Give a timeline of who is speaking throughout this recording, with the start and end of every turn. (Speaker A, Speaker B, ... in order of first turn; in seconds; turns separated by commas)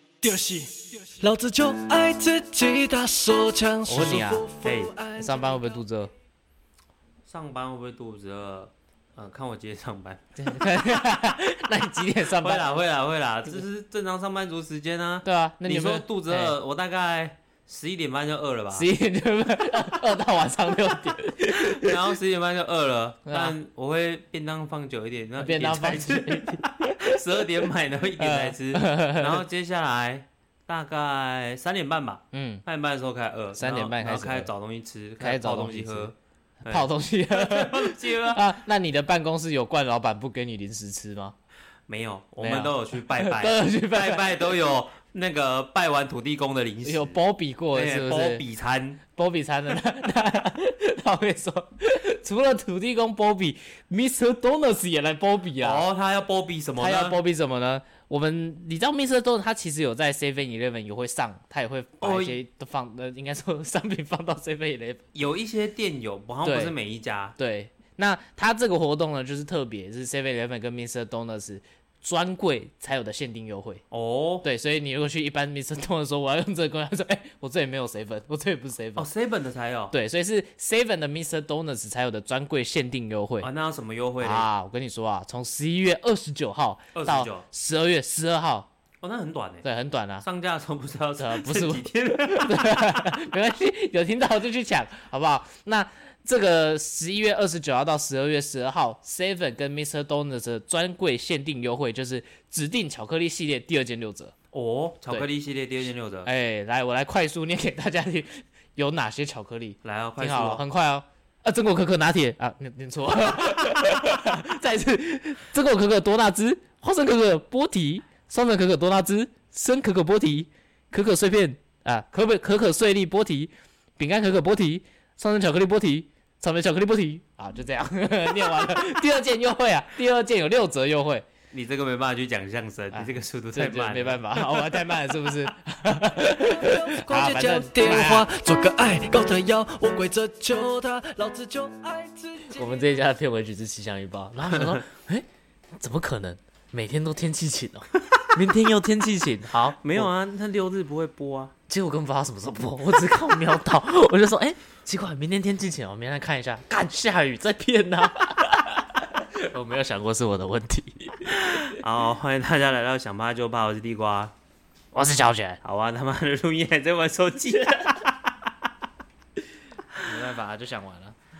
Speaker A: 0.2-5.5, Speaker B: 3.9-4.5, Speaker C: 4.6-4.9, Speaker B: 5.2-6.1, Speaker C: 7.2-10.4, Speaker B: 10.4-12.7, Speaker C: 12.3-18.9, Speaker B: 15.2-16.5, Speaker B: 18.7-22.0, Speaker C: 21.5-38.4, Speaker B: 23.2-23.5, Speaker B: 25.4-27.4, Speaker B: 28.2-29.4, Speaker B: 32.3-32.6, Speaker B: 33.5-34.5, Speaker B: 35.2-36.1, Speaker B: 36.6-41.3, Speaker C: 41.9-47.2, Speaker B: 42.4-44.3, Speaker B: 46.8-48.4, Speaker C: 47.7-49.0, Speaker B: 49.1-55.9, Speaker C: 55.6-57.2, Speaker B: 56.8-65.0, Speaker C: 62.0-62.4, Speaker C: 65.1-67.3, Speaker B: 66.4-66.7, Speaker B: 67.3-73.8, Speaker C: 73.9-74.5, Speaker B: 74.4-79.1, Speaker C: 79.0-79.9, Speaker B: 79.9-83.5, Speaker C: 83.4-84.5, Speaker B: 84.2-88.7, Speaker C: 86.9-87.4, Speaker C: 89.0-89.7, Speaker B: 89.6-90.2, Speaker C: 90.2-93.1, Speaker B: 91.2-104.3, Speaker C: 104.5-106.3, Speaker B: 106.2-131.2, Speaker C: 109.8-110.6, Speaker C: 131.5-134.8, Speaker B: 132.9-138.3, Speaker A: 136.2-142.8, Speaker B: 142.5-145.2, Speaker C: 144.5-144.8, Speaker B: 145.8-150.1, Speaker C: 149.8-151.5, Speaker B: 151.7-161.7, Speaker C: 161.3-164.3, Speaker B: 164.9-165.6, Speaker C: 165.6-168.5, Speaker B: 170.0-171.1